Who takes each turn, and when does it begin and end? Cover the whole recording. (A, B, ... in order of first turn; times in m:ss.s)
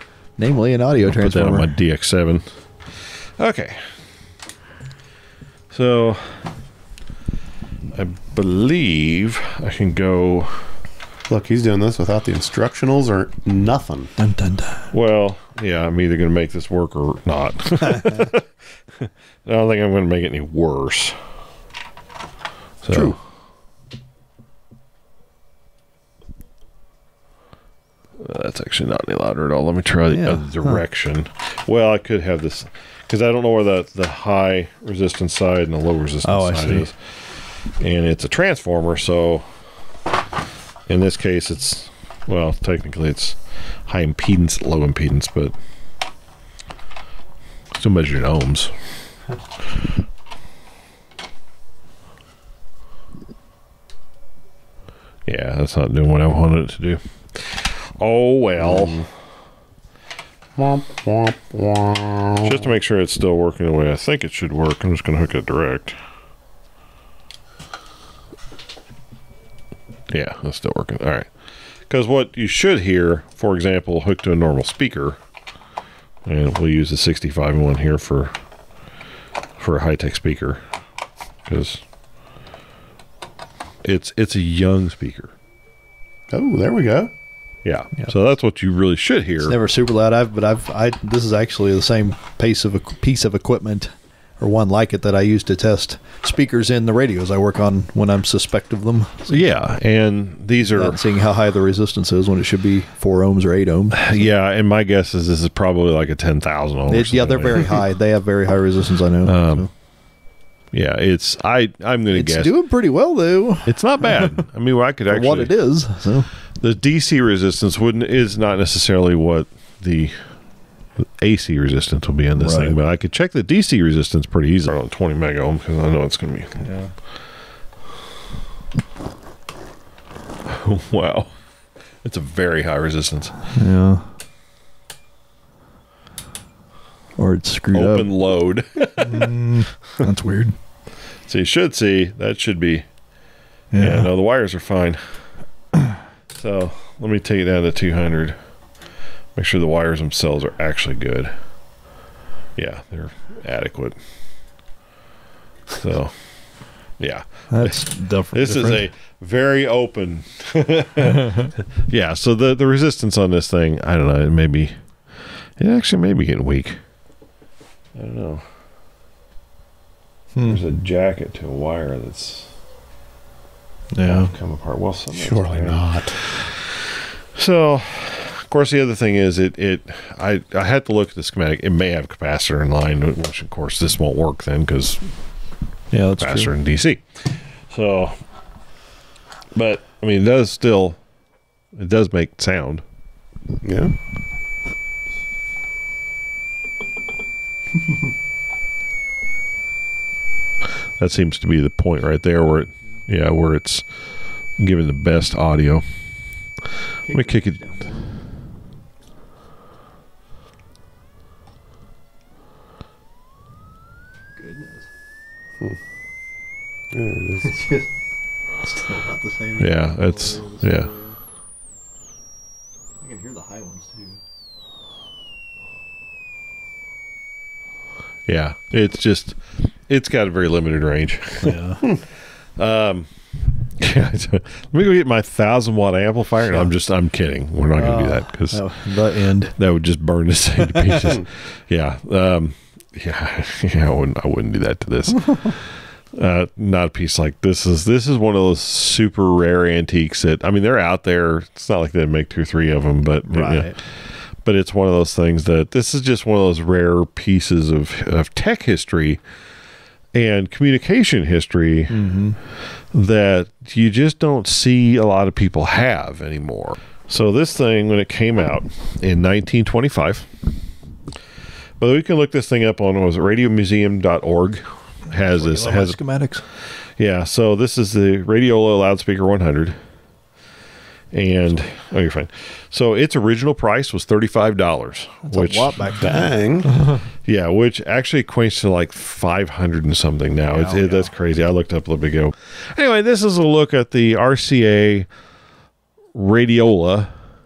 0:00.4-0:01.7 A
0:01.0-0:02.4 B
0:03.4-0:03.8 B
0:05.7-0:06.4 B
0:07.9-0:10.7 B
0:11.3-0:14.1 C
0:14.2-0:14.9 A
0:14.9-0:18.5 B
0:19.0-0:21.2 B
0:22.8-0:23.2 B
0:22.9-0:23.2 A
0:28.2-0:39.4 B
0:30.1-0:30.8 A
0:36.2-0:36.9 A
0:40.9-0:45.5 B
0:47.8-0:48.7 B
0:55.2-0:59.1 B
0:58.6-0:59.0 C
1:00.6-1:02.7 C
1:02.4-1:06.0 B
1:10.1-1:11.3 B
1:11.9-1:15.2 B
1:16.2-1:18.3 B
1:19.6-1:20.6 B
1:21.5-1:21.8 B
1:23.8-1:25.3 B
1:26.3-1:27.1 C
1:27.6-1:29.6 B
1:29.4-1:39.4 A
1:39.3-1:41.0 B
1:40.7-1:44.2 A
1:43.9-1:47.8 B
1:46.9-1:49.7 A
1:49.2-1:49.7 B
1:50.7-1:52.5 B
1:52.1-1:54.3 A
1:53.6-1:55.5 B
1:55.1-1:56.3 A
1:56.6-2:00.3 B
2:01.0-2:06.6 B
2:02.4-2:02.8 A
2:06.6-2:06.9 A
2:10.4-2:11.3 B
2:12.0-2:13.4 B
2:13.5-2:14.0 A
2:17.2-2:18.1 A
2:17.7-2:19.3 B
2:19.0-2:20.5 A
2:21.2-2:22.8 B
2:23.7-2:24.1 A
2:23.8-2:25.2 B
2:26.3-2:28.4 B
2:29.3-2:31.3 B
2:32.6-2:34.0 B
2:35.8-2:46.8 B
2:37.5-2:38.9 A
2:47.9-2:48.4 B
2:50.4-2:50.6 A
2:50.4-2:52.5 B
2:53.9-2:54.3 A
2:54.0-2:56.5 B
2:55.1-2:56.2 C
2:57.3-3:05.1 B
3:05.9-3:06.5 A
3:06.2-3:08.2 B
3:09.5-3:11.0 B
3:11.8-3:12.8 B
3:13.6-3:13.9 C
3:21.0-3:23.9 B
3:24.6-3:25.8 B
3:27.0-3:28.1 A
3:27.0-3:27.7 B
3:34.4-3:34.9 A
3:36.9-3:37.6 C
3:37.5-3:37.9 A
3:38.6-3:41.2 A
3:39.6-3:40.9 B
3:43.0-3:44.2 A
3:48.3-3:52.0 B
3:51.4-3:51.8 A
3:52.6-3:53.1 B
3:53.6-4:19.2 B
3:57.7-3:59.5 A
4:00.6-4:01.2 A
4:13.2-4:13.7 A
4:20.1-4:22.1 B
4:21.9-4:22.4 A
4:22.8-4:30.3 B
4:31.8-4:36.0 B
4:35.4-4:36.4 A
4:37.0-4:39.8 B
4:41.1-4:46.2 B
4:45.2-4:46.3 A
4:46.0-4:46.8 C
4:47.2-4:55.1 B
4:50.5-4:51.1 A
4:56.1-4:57.1 B